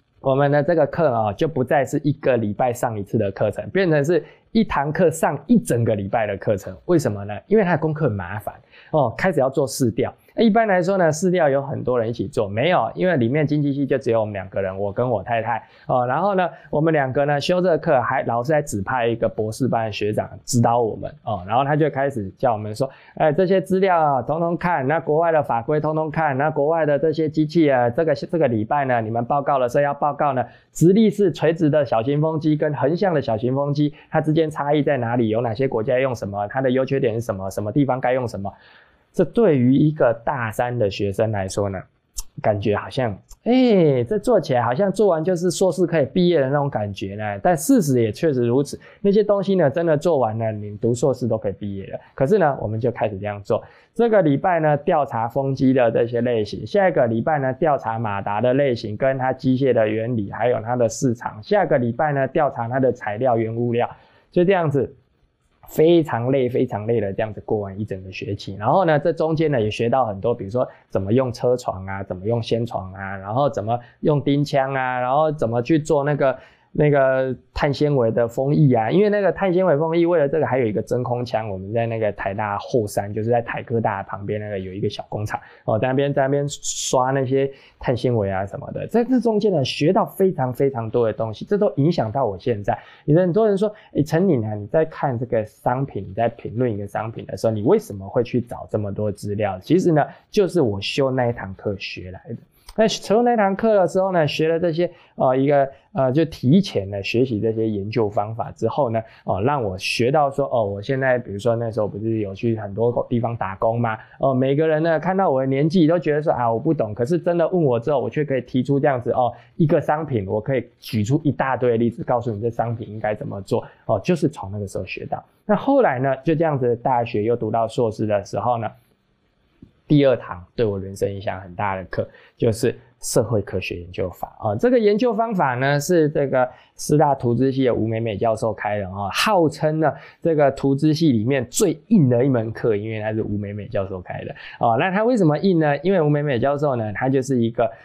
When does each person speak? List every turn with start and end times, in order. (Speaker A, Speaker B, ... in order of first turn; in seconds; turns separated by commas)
Speaker A: 0.2-38.5, Speaker A: 39.1-41.8, Speaker A: 42.4-64.9, Speaker A: 65.7-128.7, Speaker A: 129.9-147.7